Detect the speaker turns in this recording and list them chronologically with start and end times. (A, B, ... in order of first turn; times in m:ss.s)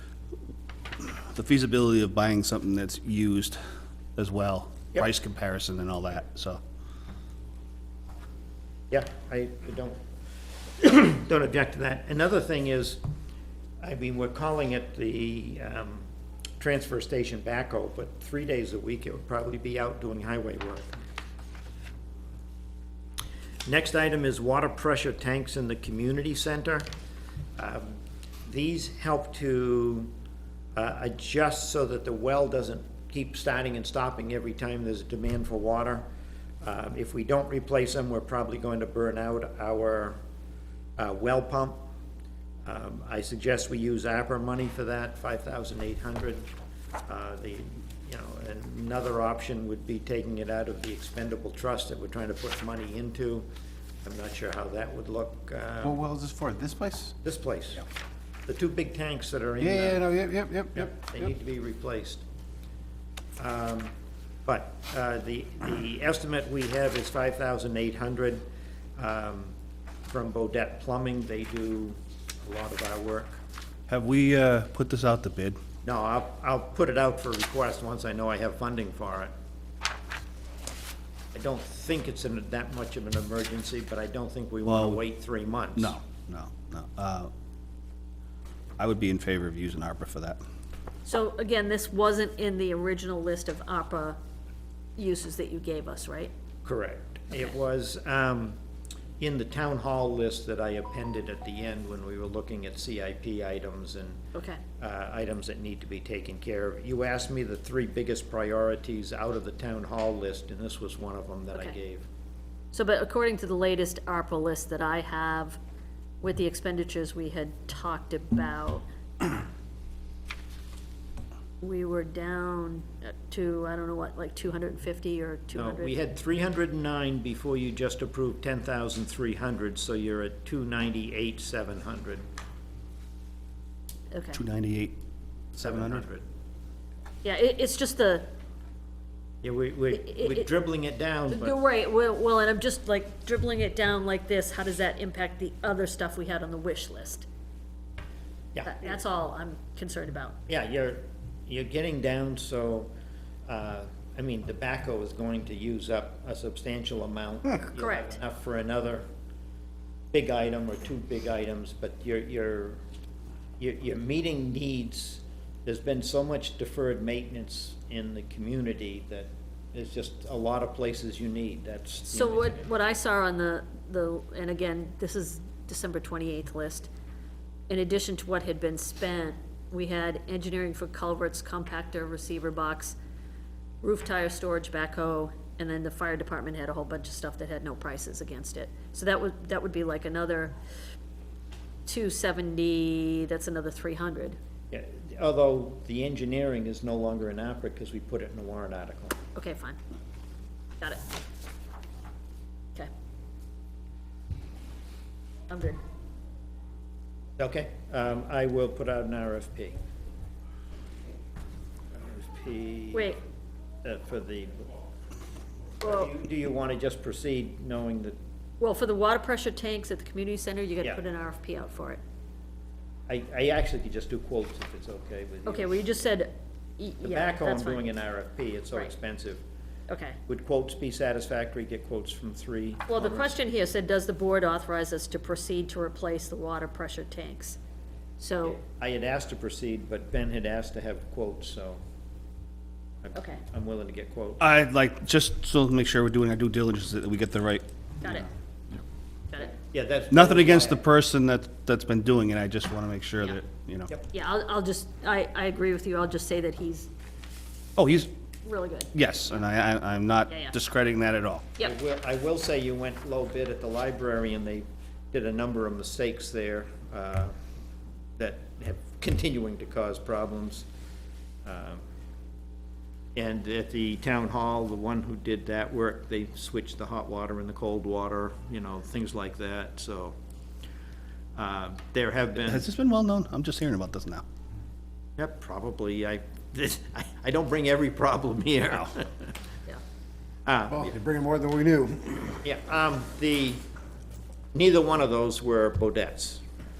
0:01.3-0:03.6 A
0:04.2-0:06.6 A
0:08.9-0:10.0 B
0:10.8-0:13.0 B
0:13.8-0:16.1 B
0:16.6-0:20.9 B
0:23.6-0:26.9 B
0:27.6-0:27.9 B
0:28.4-0:30.1 B
0:30.7-0:36.0 B
0:36.6-0:40.2 B
0:41.0-0:41.8 B
0:42.6-0:46.5 B
0:47.0-0:53.4 B
0:54.0-0:56.0 B
0:55.8-0:57.1 C
0:57.2-0:57.8 B
0:58.5-1:00.2 B
0:59.6-1:00.9 C
1:00.8-1:02.2 B
1:03.4-1:03.9 B
1:04.4-1:08.4 B
1:09.0-1:09.5 B
1:10.1-1:13.4 B
1:13.9-1:15.6 A
1:15.8-1:19.3 B
1:21.3-1:26.0 B
1:24.6-1:25.0 A
1:25.8-1:27.3 A
1:28.8-1:30.4 A
1:31.0-1:34.2 D
1:35.0-1:36.3 D
1:36.6-1:38.6 B
1:39.2-1:44.2 B
1:44.3-1:44.6 D
1:44.8-1:52.0 B
1:52.7-1:55.6 D
1:56.2-1:59.4 D
2:01.6-2:05.9 D
2:05.5-2:12.2 B
2:14.1-2:14.4 D
2:14.3-2:15.0 A
2:15.5-2:16.0 A
2:15.6-2:16.2 B
2:17.2-2:18.3 D
2:19.4-2:21.6 B
2:19.9-2:20.5 D
2:21.3-2:27.2 D
2:28.5-2:28.9 B
2:28.6-2:30.4 D
2:30.5-2:32.9 B
2:33.5-2:39.0 B
2:37.7-2:38.1 D
2:40.1-2:42.8 B
2:43.6-2:52.6 B
2:52.1-2:56.9 D
2:57.7-3:03.0 D
3:03.8-3:10.6 D
3:11.8-3:14.4 D
3:14.7-3:19.2 B
3:19.3-3:19.8 D
3:25.5-3:25.8 D
3:27.4-3:29.8 B
3:31.9-3:33.1 B
3:32.9-3:33.2 D
3:33.8-3:34.7 B
3:35.8-3:38.2 B
3:35.8-3:36.1 D
3:38.6-3:42.0 D
3:43.1-3:45.7 B
3:45.4-3:47.9 D
3:47.0-3:49.4 B
3:49.9-3:50.2 D
3:50.3-3:53.4 B
3:52.9-3:57.6 D
3:58.2-3:58.6 D
3:58.5-4:01.8 B
4:03.0-4:04.4 B
4:03.1-4:03.4 D
4:04.4-4:07.6 A
4:08.0-4:08.8 D
4:09.4-4:10.8 B
4:10.1-4:13.9 A
4:14.1-4:16.9 D
4:17.8-4:18.1 A
4:18.4-4:18.9 D
4:18.9-4:21.5 A
4:20.3-4:20.5 D
4:21.6-4:27.3 B
4:28.2-4:30.6 B
4:31.4-4:31.8 B
4:33.1-4:40.1 B
4:41.3-4:42.6 B
4:42.4-4:44.2 A
4:45.2-4:49.3 B
4:50.4-4:51.0 B
4:50.7-4:52.3 C
4:52.4-4:53.6 B
4:54.5-4:56.4 B